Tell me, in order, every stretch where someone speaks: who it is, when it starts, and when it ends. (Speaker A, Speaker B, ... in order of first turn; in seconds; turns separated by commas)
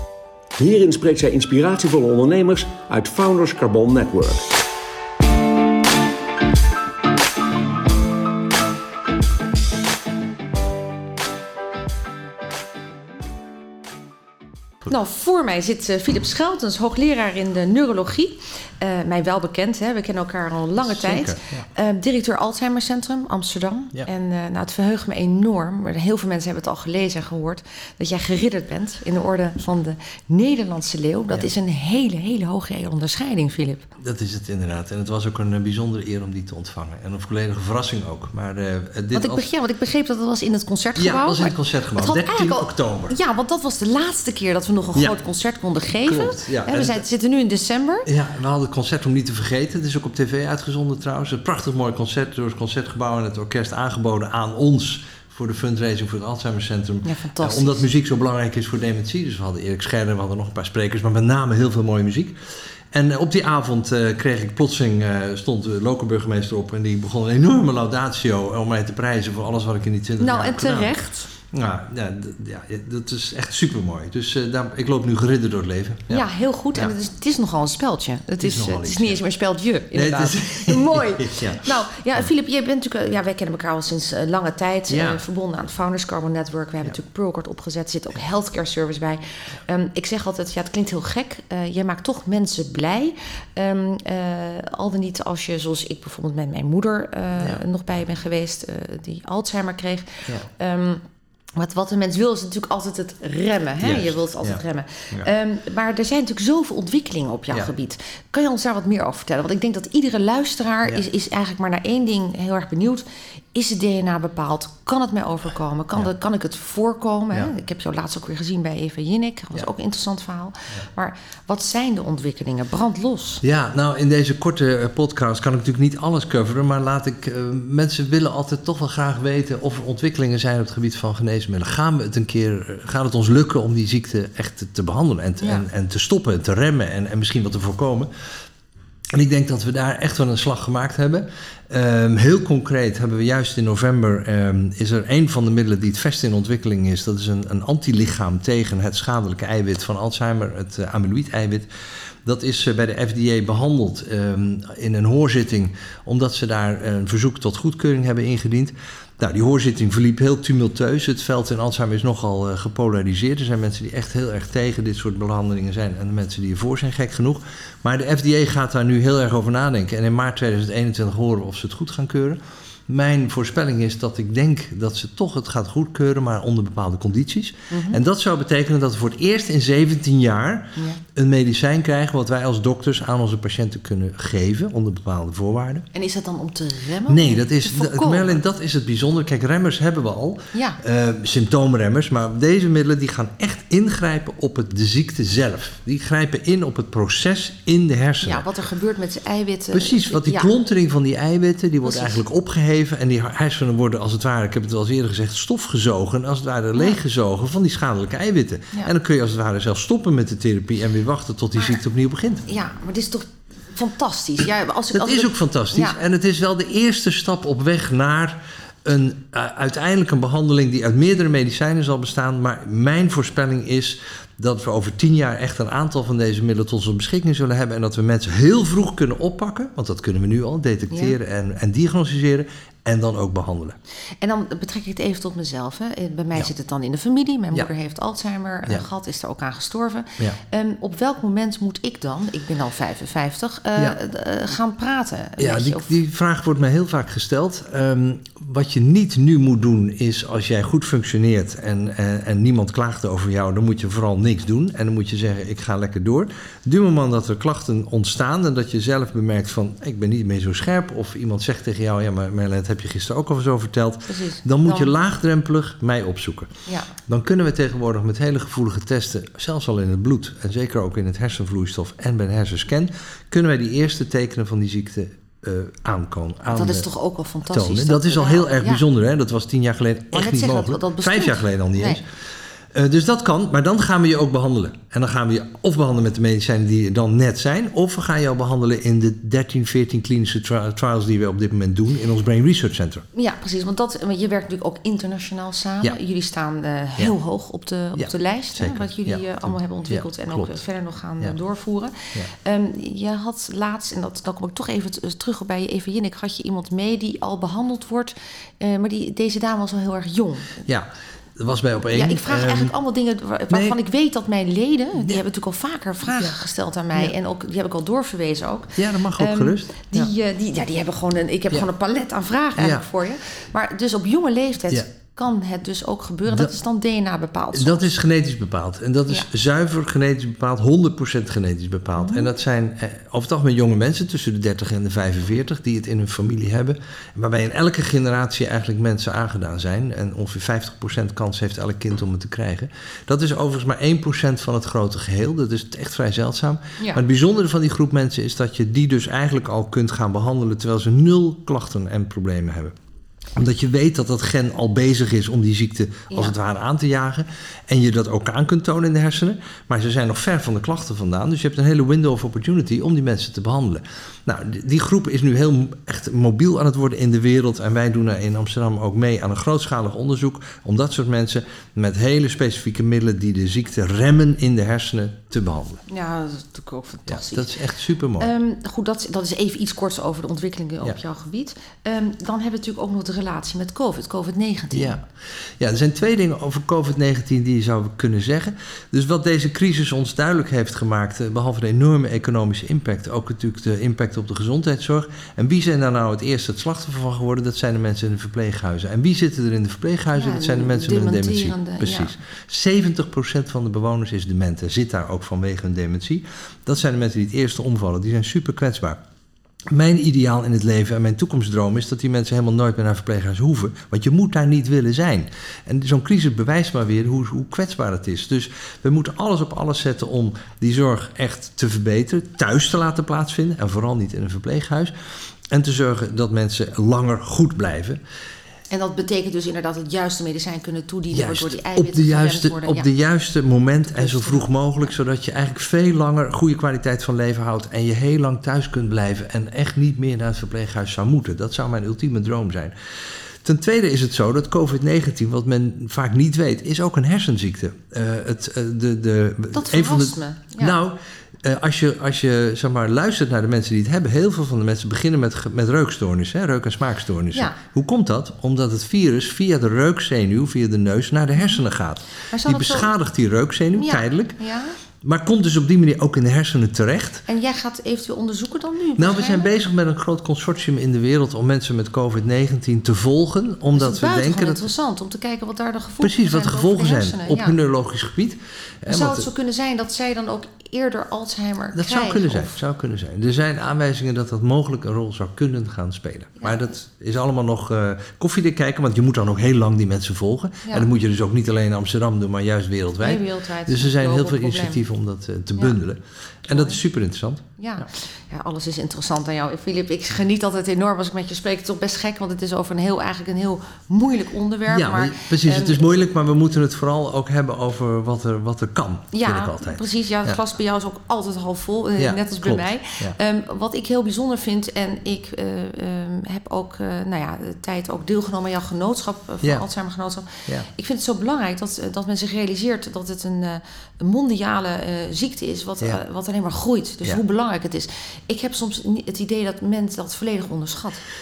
Speaker A: 0.6-4.5, Speaker B: 14.8-33.9, Speaker C: 20.8-21.6, Speaker C: 34.0-39.5, Speaker B: 39.1-48.1, Speaker C: 41.0-43.2, Speaker C: 44.9-45.2, Speaker C: 46.0-47.0, Speaker C: 48.0-62.3, Speaker B: 57.0-57.8, Speaker C: 62.9-76.9, Speaker B: 70.2-71.3, Speaker B: 76.1-101.0, Speaker C: 78.4-79.2, Speaker C: 79.9-82.3, Speaker C: 84.9-85.2, Speaker B: 101.5-123.4, Speaker C: 103.8-105.3, Speaker C: 123.4-138.1, Speaker B: 135.4-135.7, Speaker C: 139.1-151.7, Speaker C: 152.2-185.9, Speaker B: 177.7-178.0, Speaker B: 180.8-181.0, Speaker B: 185.9-188.4, Speaker C: 187.1-198.5, Speaker B: 190.5-190.8, Speaker B: 198.2-200.5, Speaker C: 199.7-212.5, Speaker B: 201.8-202.2, Speaker B: 211.6-211.8, Speaker B: 212.5-216.0, Speaker C: 214.9-233.8, Speaker B: 230.9-231.2, Speaker B: 234.2-245.9, Speaker C: 245.4-276.9, Speaker B: 264.1-264.9, Speaker B: 266.6-266.9, Speaker B: 276.5-278.8, Speaker C: 277.5-282.0, Speaker B: 280.1-282.0, Speaker C: 282.7-293.0, Speaker B: 293.1-310.6, Speaker C: 297.9-300.6, Speaker C: 310.6-312.7, Speaker B: 311.9-327.9, Speaker C: 313.5-313.8, Speaker C: 318.7-320.1, Speaker C: 322.6-322.9, Speaker C: 326.3-326.5, Speaker C: 327.5-352.7, Speaker B: 332.0-332.3, Speaker C: 353.4-375.8, Speaker B: 356.1-356.4, Speaker B: 375.9-377.5, Speaker C: 377.1-378.3, Speaker B: 378.2-385.0, Speaker C: 384.7-385.0, Speaker C: 385.6-409.0, Speaker B: 400.1-402.2, Speaker C: 409.7-424.9, Speaker C: 425.5-428.0, Speaker B: 428.7-432.9, Speaker C: 431.1-442.7, Speaker B: 433.8-434.5, Speaker C: 443.4-464.4, Speaker B: 449.5-450.8, Speaker B: 461.4-461.6, Speaker B: 462.3-462.9, Speaker B: 463.7-464.7, Speaker C: 465.0-467.2, Speaker B: 467.3-469.5, Speaker C: 469.0-474.7, Speaker B: 473.7-477.6, Speaker C: 476.0-479.3, Speaker B: 478.9-482.5, Speaker C: 481.7-497.9, Speaker B: 493.0-494.8, Speaker B: 496.5-496.8, Speaker B: 497.6-505.9, Speaker C: 504.7-510.4, Speaker B: 509.1-531.0, Speaker C: 512.0-513.2